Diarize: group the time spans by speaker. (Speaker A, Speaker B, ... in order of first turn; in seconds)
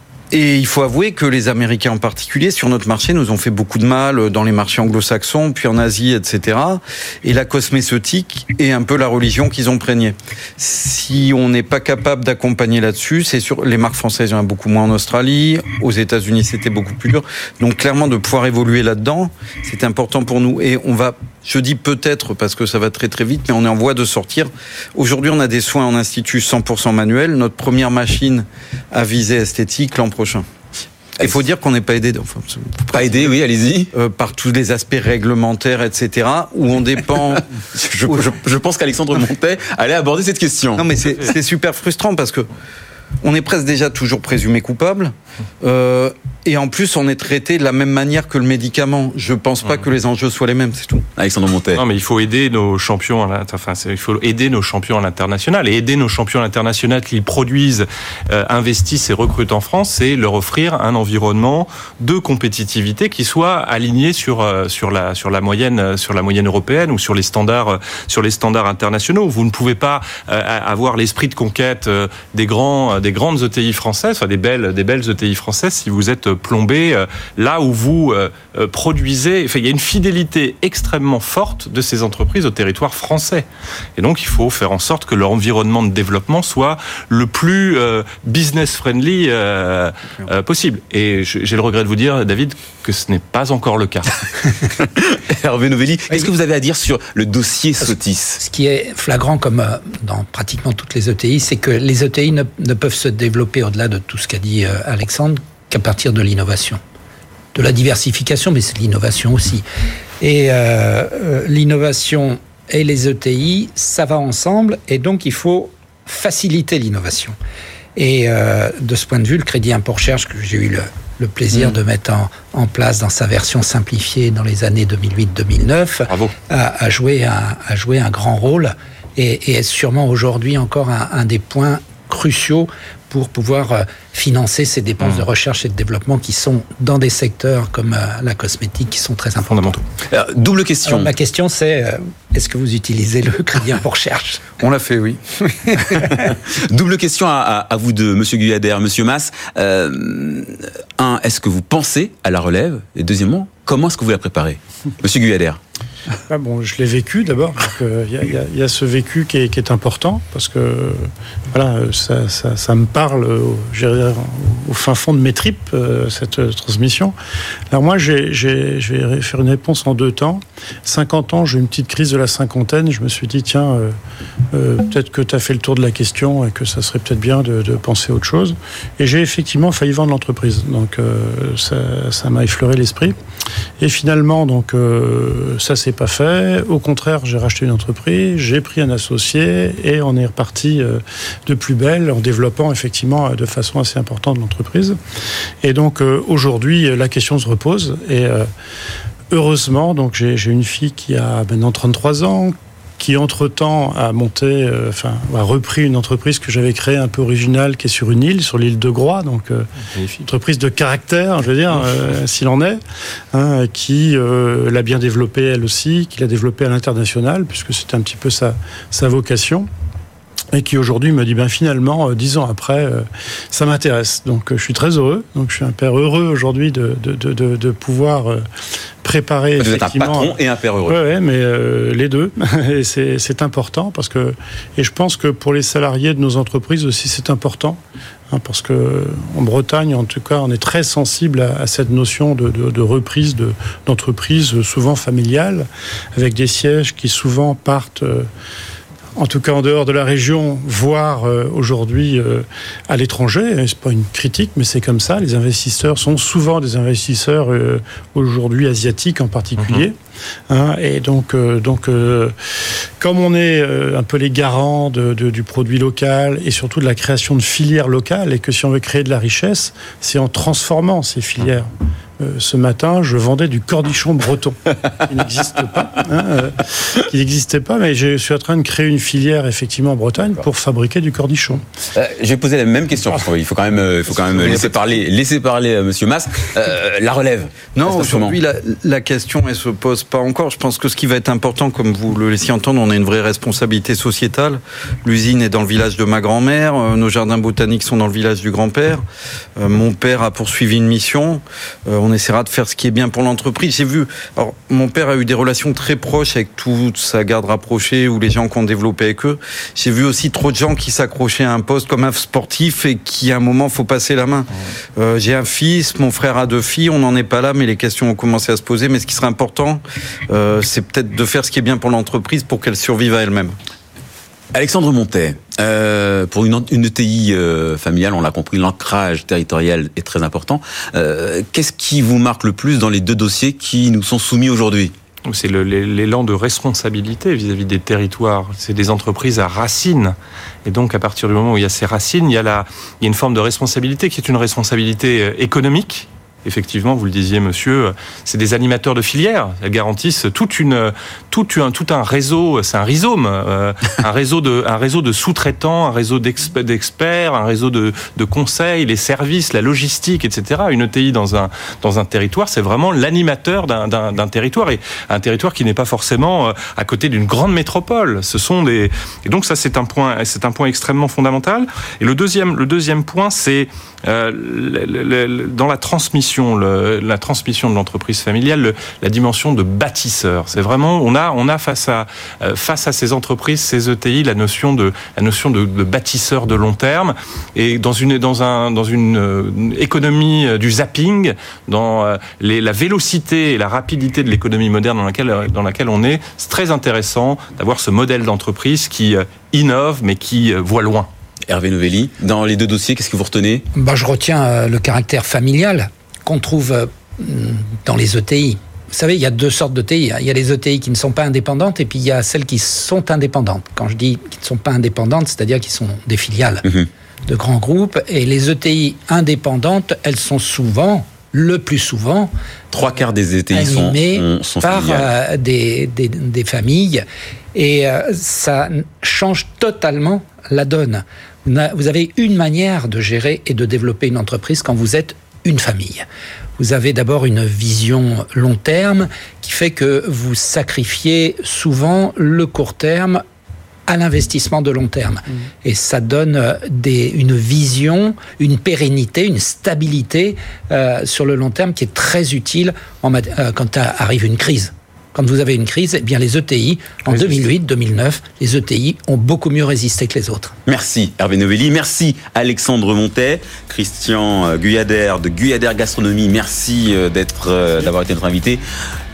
Speaker A: 0.3-30.4, 31.2-33.3, 33.9-37.5, 40.8-42.5, 43.2-51.0, 144.6-146.3, 287.8-299.0, 299.6-323.6
Speaker B: 32.9-33.9, 37.7-40.9, 51.2-51.8, 94.8-98.4, 140.1-141.1, 146.1-155.6, 229.6-231.0, 281.9-288.4, 324.5-334.9, 401.5-403.6, 422.7-425.1, 457.1-457.4, 460.6-468.6
Speaker C: 51.7-83.5, 84.0-94.2, 139.5-139.8, 209.9-210.2, 259.6-259.8, 335.2-401.1
Speaker D: 98.4-106.8, 107.5-109.6, 110.2-117.3, 118.0-139.8, 140.8-144.4, 403.7-416.7, 417.3-422.3, 423.5-436.0, 436.6-443.2, 443.9-460.5
Speaker E: 156.3-167.1, 167.7-173.9, 174.5-183.2, 183.8-195.0, 195.6-198.5, 199.3-209.7, 210.2-212.8, 213.3-219.7, 220.5-228.4, 229.0-230.3, 230.8-248.3, 249.2-259.9, 260.5-281.6